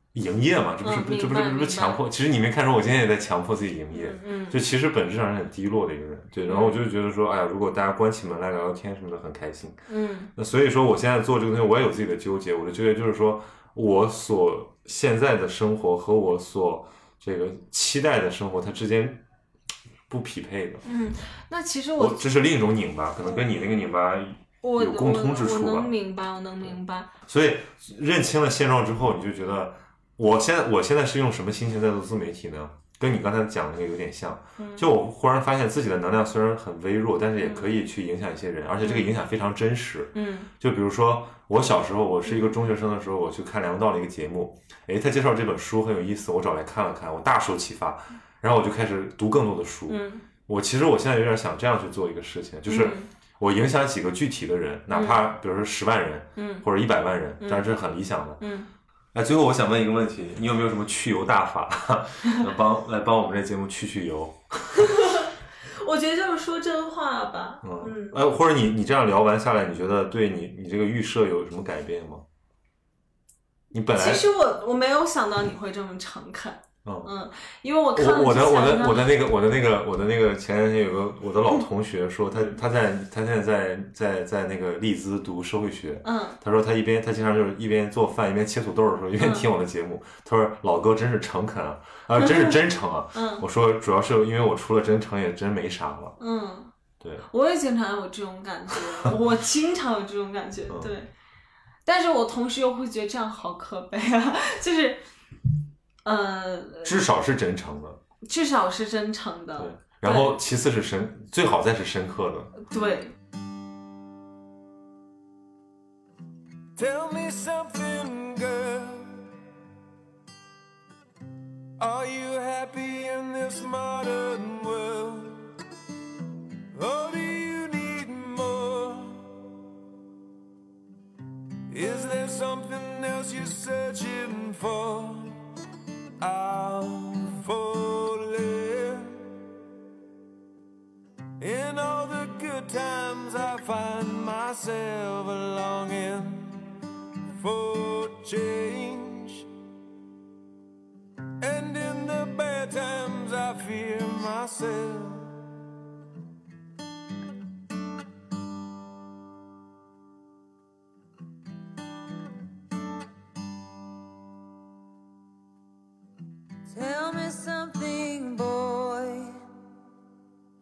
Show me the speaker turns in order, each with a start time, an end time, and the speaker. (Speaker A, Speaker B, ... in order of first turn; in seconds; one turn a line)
Speaker A: 0.1-19.2
Speaker B: 0.8-2.0
Speaker B: 3.9-4.6
Speaker B: 6.5-6.8
Speaker B: 9.9-10.3
Speaker A: 20.1-20.8
Speaker B: 20.8-22.3
Speaker A: 22.0-25.9
Speaker B: 24.6-27.1
Speaker A: 27.3-58.4
Speaker B: 34.6-34.9
Speaker B: 37.4-37.8
Speaker B: 38.8-39.1
Speaker B: 40.1-40.5
Speaker B: 42.3-42.6
Speaker B: 49.9-50.2
Speaker B: 52.7-53.1
Speaker B: 54.9-55.3
Speaker B: 56.4-56.7
Speaker B: 57.4-57.7
Speaker B: 58.4-58.7
Speaker A: 59.1-65.0
Speaker B: 64.8-68.2
Speaker A: 67.6-72.2
Speaker A: 73.7-74.3
Speaker B: 73.9-79.2
Speaker A: 76.8-77.1
Speaker A: 78.0-96.2
Speaker B: 82.3-82.6
Speaker B: 86.0-86.4
Speaker B: 89.2-89.5
Speaker B: 92.2-92.6
Speaker B: 93.1-93.4
Speaker B: 96.2-96.7
Speaker A: 97.0-97.3
Speaker B: 97.3-101.1
Speaker B: 101.9-105.0
Speaker B: 106.0-107.0
Speaker A: 106.8-108.0
Speaker B: 108.2-110.4
Speaker A: 109.6-112.6
Speaker B: 112.6-113.2
Speaker C: 116.8-119.3
Speaker C: 121.8-125.5
Speaker C: 126.7-129.3
Speaker C: 131.7-135.4
Speaker C: 136.2-139.4
Speaker C: 141.4-146.7
Speaker C: 147.3-149.5
Speaker C: 151.4-155.3
Speaker D: 166.7-169.4